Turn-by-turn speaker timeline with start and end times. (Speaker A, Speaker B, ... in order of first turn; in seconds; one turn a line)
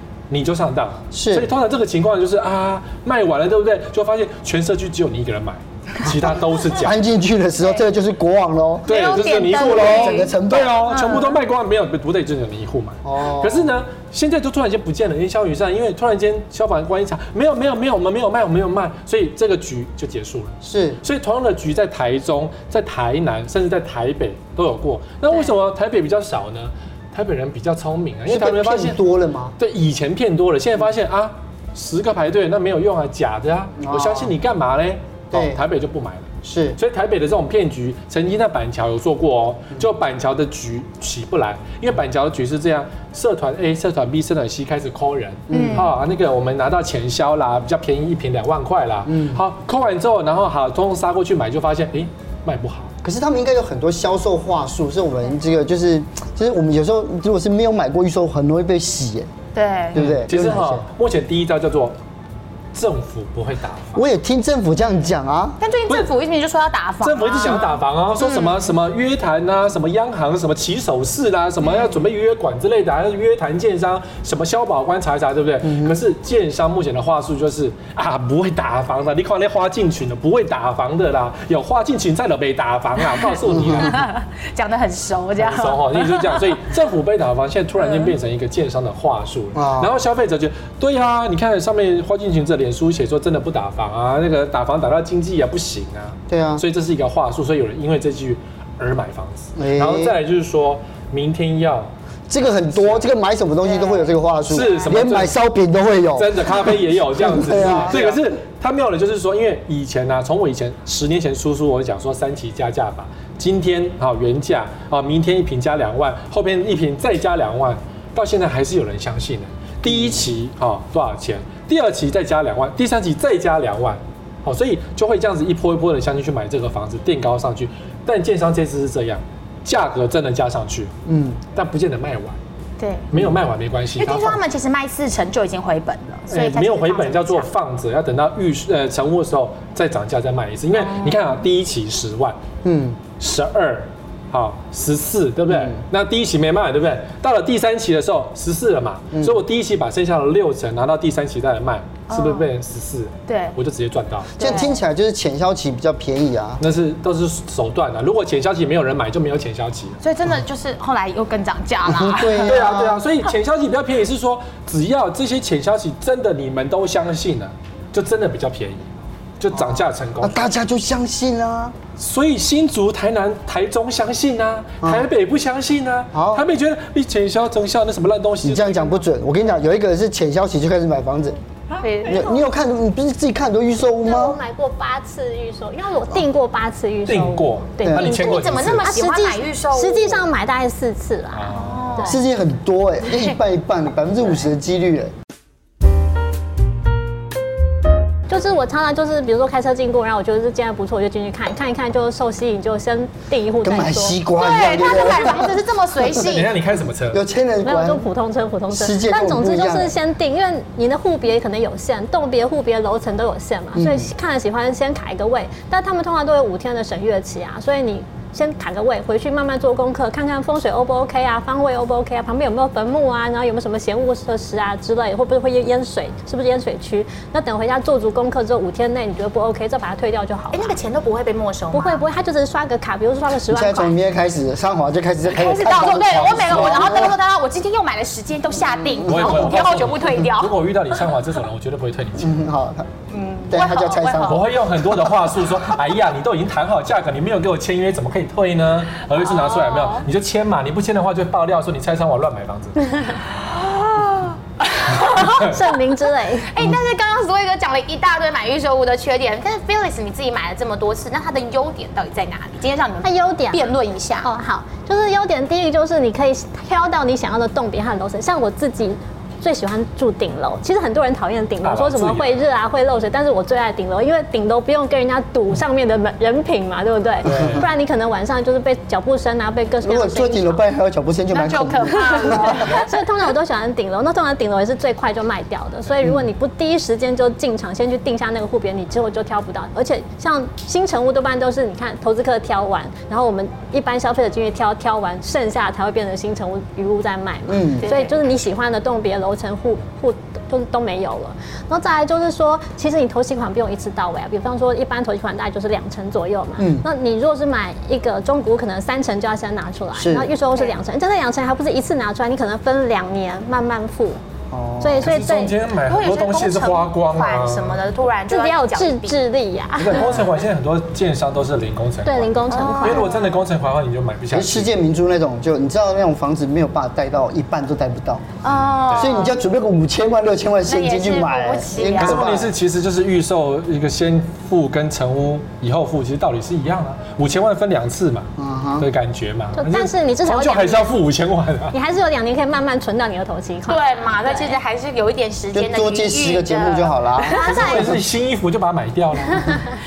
Speaker A: 0.3-7.0
Speaker B: 1.1-1.5
Speaker B: 6.0-8.9
Speaker C: 8.9-11.4
Speaker A: 8.9-29.0
Speaker B: 9.5-11.0
Speaker B: 13.0-13.8
Speaker B: 20.6-21.0
Speaker B: 28.3-29.6
Speaker A: 29.6-52.9
Speaker B: 33.8-34.3
Speaker B: 35.3-35.6
Speaker B: 36.4-36.8
Speaker B: 45.5-45.9
Speaker C: 45.5-45.9
Speaker B: 49.1-49.4
Speaker B: 53.0-59.3
Speaker C: 59.5-60.0
Speaker A: 59.9-62.0
Speaker B: 59.9-60.8
Speaker A: 62.7-64.0
Speaker B: 64.0-65.6
Speaker C: 65.6-68.7
Speaker A: 67.0-84.1
Speaker C: 71.6-72.0
Speaker B: 75.6-76.0
Speaker B: 83.5-83.9
Speaker C: 83.8-86.5
Speaker A: 85.4-101.9
Speaker B: 89.5-89.9
Speaker B: 96.3-96.6
Speaker B: 99.6-100.2
Speaker B: 102.3-108.2
Speaker A: 102.4-103.1
Speaker C: 103.6-104.9
Speaker A: 104.5-105.3
Speaker A: 106.2-130.9
Speaker C: 107.8-108.1
Speaker B: 119.8-120.2
Speaker B: 131.1-131.4
Speaker A: 131.5-132.4
Speaker C: 132.8-133.1
Speaker A: 133.1-134.4
Speaker C: 134.0-137.5
Speaker A: 136.3-142.4
Speaker C: 140.7-141.2
Speaker B: 142.6-143.0
Speaker A: 143.2-154.5
Speaker B: 145.5-145.8
Speaker B: 149.1-149.4
Speaker C: 152.1-152.5
Speaker C: 153.3-153.5
Speaker C: 154.4-154.8
Speaker B: 154.4-156.6
Speaker A: 156.6-160.0
Speaker C: 160.0-162.8
Speaker B: 161.8-163.0
Speaker A: 162.4-170.5
Speaker B: 169.5-171.8
Speaker A: 172.0-179.1
Speaker B: 176.1-176.4
Speaker B: 178.4-181.4
Speaker C: 181.8-182.4
Speaker B: 182.1-184.4
Speaker D: 184.0-192.2
Speaker A: 187.1-188.9
Speaker B: 187.8-188.2
Speaker C: 188.0-190.3
Speaker A: 191.3-192.0
Speaker C: 191.5-192.2
Speaker B: 192.0-195.1
Speaker D: 198.3-204.2
Speaker B: 203.6-205.5
Speaker C: 204.3-206.5
Speaker A: 206.1-207.2
Speaker B: 207.1-208.0
Speaker D: 207.6-230.8
Speaker B: 208.7-209.9
Speaker B: 213.8-214.1
Speaker C: 230.5-232.0
Speaker D: 231.7-233.9
Speaker B: 233.5-237.2
Speaker C: 235.3-240.6
Speaker A: 235.7-236.9
Speaker B: 239.0-239.6
Speaker A: 239.1-242.5
Speaker B: 242.2-242.9
Speaker C: 243.1-244.4
Speaker B: 243.5-244.5
Speaker A: 244.2-252.9
Speaker C: 249.1-250.0
Speaker C: 253.1-255.8
Speaker D: 255.1-256.5
Speaker C: 256.4-264.3
Speaker D: 263.0-263.7
Speaker D: 264.2-280.6
Speaker A: 271.6-272.3
Speaker A: 277.2-277.7
Speaker B: 277.3-277.6
Speaker B: 279.8-282.7
Speaker C: 281.3-283.0
Speaker D: 282.1-314.2
Speaker B: 297.5-297.9
Speaker C: 297.8-298.1
Speaker B: 306.6-306.9
Speaker B: 309.9-310.3
Speaker B: 314.5-315.2
Speaker D: 314.8-315.5
Speaker A: 315.0-317.9
Speaker C: 315.9-319.1
Speaker D: 318.3-320.1
Speaker B: 319.8-320.3
Speaker A: 319.9-324.7
Speaker D: 322.0-323.1
Speaker C: 322.5-323.4
Speaker B: 324.3-328.2
Speaker C: 328.4-329.4
Speaker A: 328.5-329.2
Speaker B: 328.9-332.5
Speaker C: 330.7-332.4
Speaker A: 332.0-341.8
Speaker B: 338.4-338.9
Speaker D: 339.6-340.9
Speaker D: 341.7-344.6
Speaker C: 343.7-347.8
Speaker B: 345.5-347.4
Speaker D: 347.3-347.9
Speaker A: 347.4-349.6